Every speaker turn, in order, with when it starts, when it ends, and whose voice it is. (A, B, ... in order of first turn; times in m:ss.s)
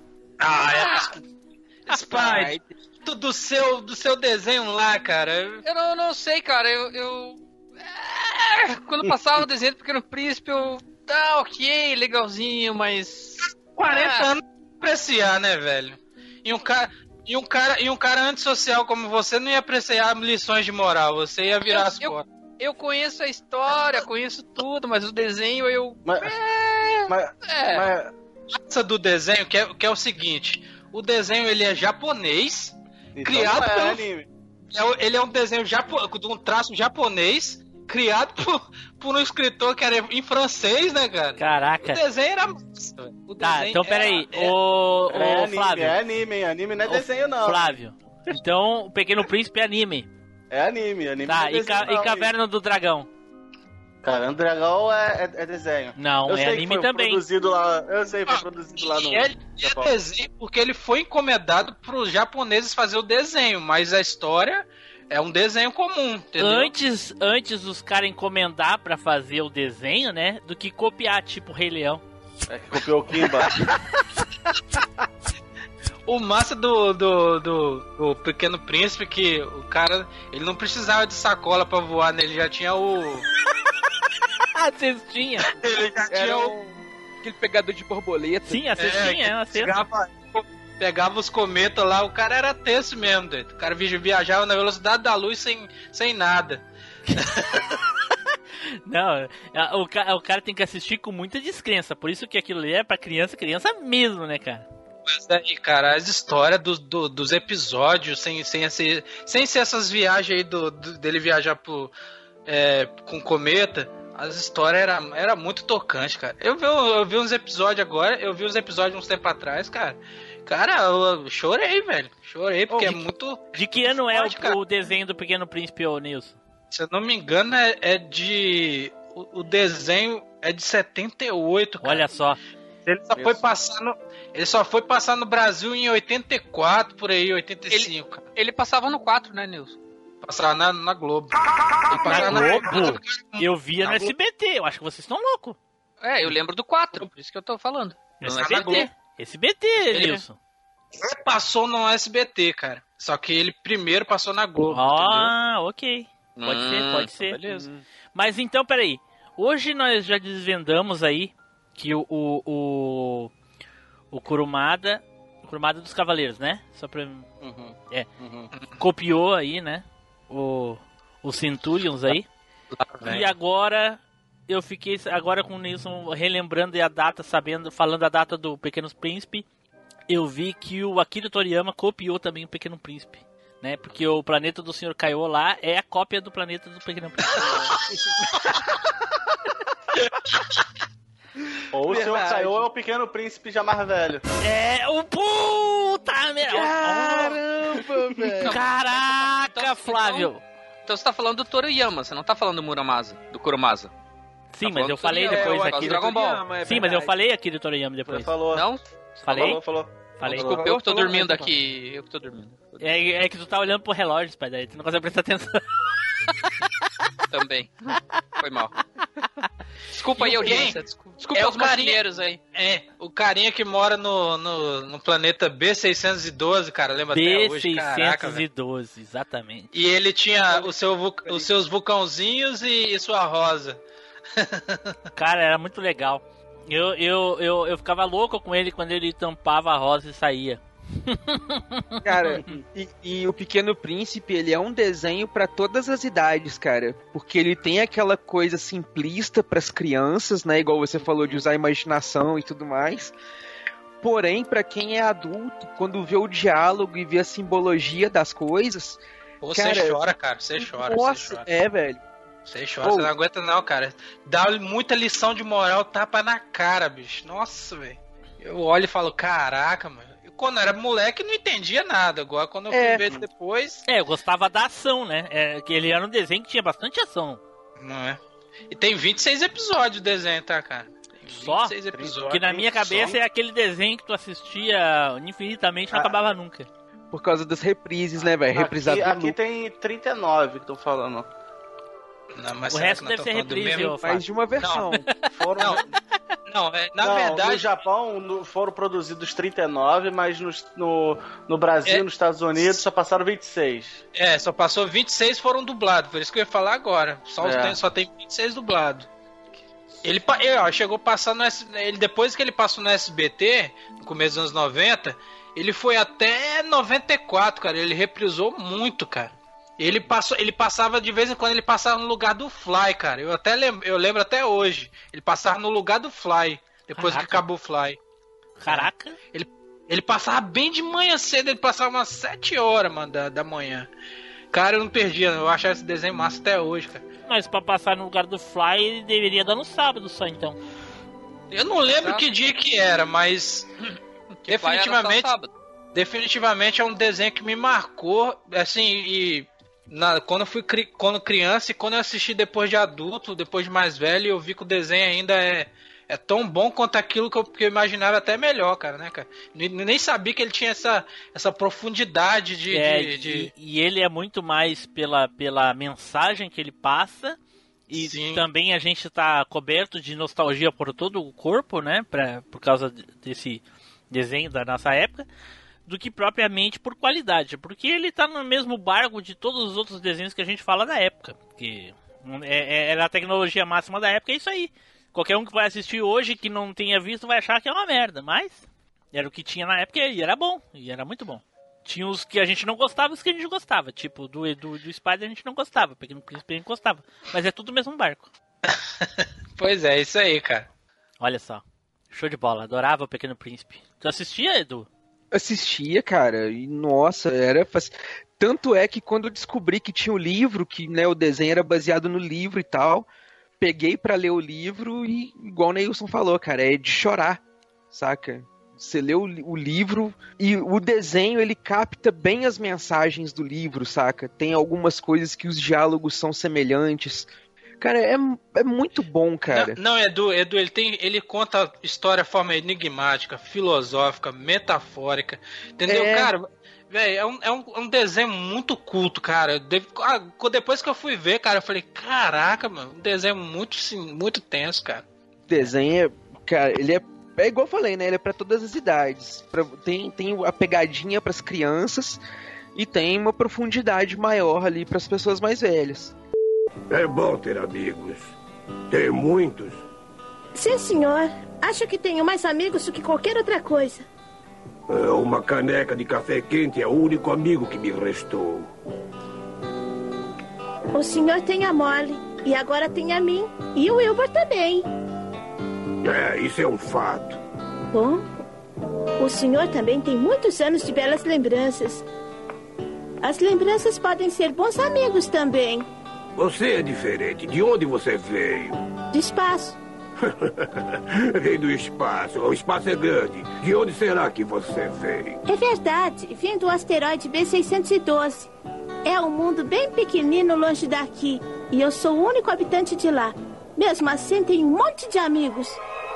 0:00.4-0:01.1 A
0:00.8-0:01.0 B
0:01.9-0:05.6 A
0:01.9-0:02.7 C
0:05.6-0:14.3 B
0:13.8-0:22.2 A
0:21.7-0:27.9 B
0:26.1-0:26.4 D
0:27.1-0:28.1 D
0:28.5-0:34.0 A
0:33.2-0:34.3 D
0:34.7-0:44.6 A
0:41.4-0:42.0 E
0:43.4-0:46.0 E
0:45.1-0:47.8 D
0:46.8-0:50.1 E
0:50.5-0:52.3 D
0:51.3-0:53.1 E
0:54.0-1:00.0 D
0:56.0-0:57.2 E
0:58.3-1:06.7 A
1:06.4-1:12.0 E
1:12.5-1:13.6 D
1:16.1-1:23.3 A
1:24.6-1:25.5 E
1:25.5-1:26.5 A
1:26.1-1:28.7 C
1:28.5-1:29.8 E
1:28.8-1:36.6 A
1:37.2-1:37.4 A
1:38.9-1:44.7 E
1:45.1-1:51.9 A
1:52.5-2:04.6 A
2:02.7-2:03.0 E
2:03.6-2:06.4 E
2:06.7-2:12.1 A
2:11.8-2:12.4 E
2:12.9-2:18.2 A
2:17.7-2:19.8 B
2:20.2-2:21.3 A
2:21.9-2:23.5 A
2:22.0-2:22.6 B
2:22.0-2:25.6 E
2:26.0-2:28.9 B
2:28.2-2:30.4 E
2:28.2-2:28.9 A
2:29.9-2:30.2 B
2:31.0-2:35.3 A
2:34.7-2:37.4 E
2:36.4-2:37.6 B
2:37.4-2:37.8 C
2:38.1-2:43.3 E
2:44.1-2:47.3 E
2:47.4-2:48.5 D
2:48.8-2:52.3 E
2:52.8-2:53.3 A
2:53.0-2:59.5 E
3:00.1-3:07.5 E
3:11.7-3:14.2 D
3:11.9-3:12.7 C
3:14.4-3:17.4 E
3:16.4-3:18.6 C
3:18.4-3:20.3 B
3:18.5-3:20.4 E
3:20.9-3:23.9 B
3:24.5-3:26.1 E
3:24.6-3:26.5 B
3:25.2-3:27.2 C
3:26.6-3:28.3 E
3:28.1-3:28.7 D
3:28.5-3:28.8 B
3:29.2-3:29.6 E
3:29.3-3:30.7 D
3:30.2-3:30.6 E
3:30.3-3:32.9 B
3:30.3-3:31.5 C
3:32.8-3:35.7 E
3:37.3-3:38.8 B
3:39.9-3:42.4 B
3:40.2-3:42.0 A
3:42.5-3:48.4 A
3:47.1-3:49.7 E
3:49.7-3:53.8 A
3:54.4-3:54.9 A
3:55.2-4:02.4 E
4:02.0-4:13.2 C
4:14.0-4:19.0 C
4:19.4-4:21.5 A
4:19.5-4:20.0 C
4:20.6-4:22.0 C
4:22.5-4:33.8 A
4:22.8-4:23.1 C
4:32.7-4:33.3 C
4:33.9-4:37.4 E
4:37.8-4:38.2 A
4:38.7-4:43.1 A
4:41.3-4:41.8 E
4:41.9-4:43.1 D
4:42.3-4:46.7 E
4:47.1-4:49.4 C
4:48.5-4:51.3 D
4:52.3-4:54.0 A
4:52.7-4:54.2 E
4:54.0-4:55.1 C
4:55.4-4:55.9 D
4:56.5-4:57.7 A
4:57.0-5:04.0 D
5:02.6-5:02.8 A
5:04.2-5:09.1 A
5:07.4-5:07.8 D
5:10.0-5:28.0 A
5:27.0-5:27.4 E
5:28.6-5:29.2 E
5:28.7-5:33.9 A
5:34.5-5:37.0 A
5:37.2-5:40.6 E
5:41.5-5:43.7 A
5:42.0-5:42.3 B
5:44.5-5:45.3 A
5:44.5-5:45.5 B
5:45.9-6:03.5 A
6:02.7-6:07.4 E
6:07.9-6:15.3 E
6:07.9-6:08.4 A
6:15.9-6:38.3 E
6:38.7-6:40.7 A
6:41.2-6:44.9 E
6:45.3-6:53.1 C
6:53.6-7:07.3 C
7:07.8-7:09.8 C
7:09.5-7:25.0 A
7:15.8-7:16.3 C
7:25.5-7:32.2 C
7:32.8-7:36.2 C
7:36.9-7:38.3 F
7:38.9-7:39.8 F
7:40.6-7:44.1 G
7:44.9-7:48.7 F
7:50.9-7:54.9 G
7:56.0-7:57.4 F
7:57.9-7:58.3 G
7:59.2-8:02.0 G
8:03.2-8:05.9 G
8:06.4-8:08.8 F
8:09.1-8:09.8 G
8:10.4-8:15.4 F
8:15.5-8:18.5 G
8:19.0-8:25.8 G